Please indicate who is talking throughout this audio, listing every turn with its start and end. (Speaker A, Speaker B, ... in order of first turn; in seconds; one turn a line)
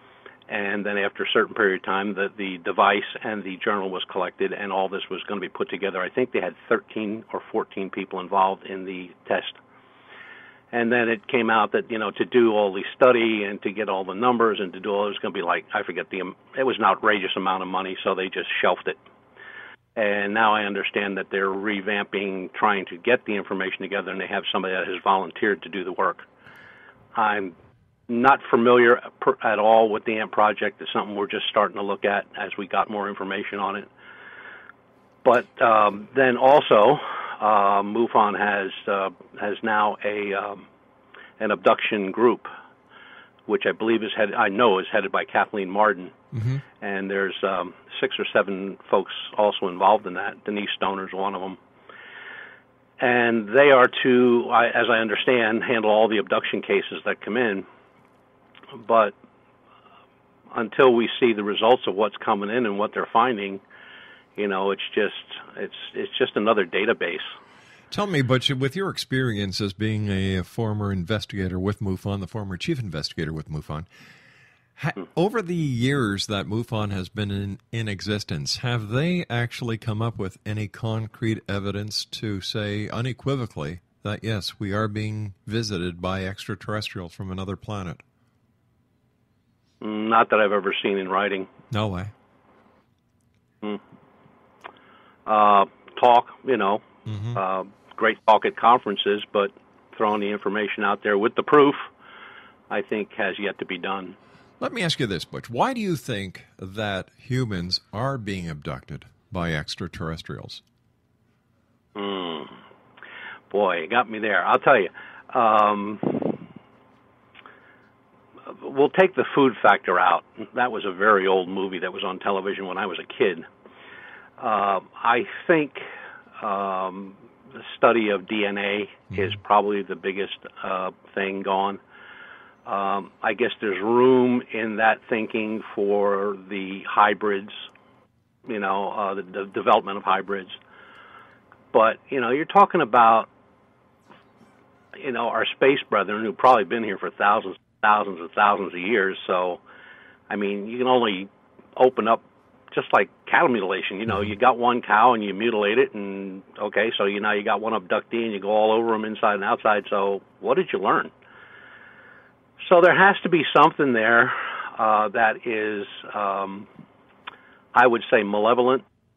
Speaker A: 0.5-9.6
Speaker A: 10.7-19.0
Speaker A: 19.9-26.2
Speaker A: 27.1-27.6
Speaker A: 28.1-33.9
Speaker A: 35.2-40.6
Speaker A: 41.4-42.5
Speaker A: 43.5-46.1
Speaker B: 46.3-46.6
Speaker A: 46.8-51.6
Speaker A: 53.0-57.6
Speaker A: 58.8-59.1
Speaker A: 60.5-63.6
Speaker A: 64.3-67.3
Speaker B: 67.9-73.9
Speaker B: 74.8-88.0
Speaker A: 89.8-91.5
Speaker B: 91.7-92.1
Speaker A: 95.2-101.9
Speaker B: 97.0-97.4
Speaker A: 102.7-104.2
Speaker B: 104.6-110.6
Speaker A: 111.9-112.5
Speaker A: 113.5-116.4
Speaker A: 118.5-123.5
Speaker A: 124.4-125.8
Speaker A: 126.4-131.8
Speaker A: 132.6-137.7
Speaker A: 138.4-140.6
Speaker A: 141.7-143.3
Speaker A: 144.9-149.6
Speaker A: 150.3-161.1
Speaker A: 162.7-166.7
Speaker A: 167.7-168.8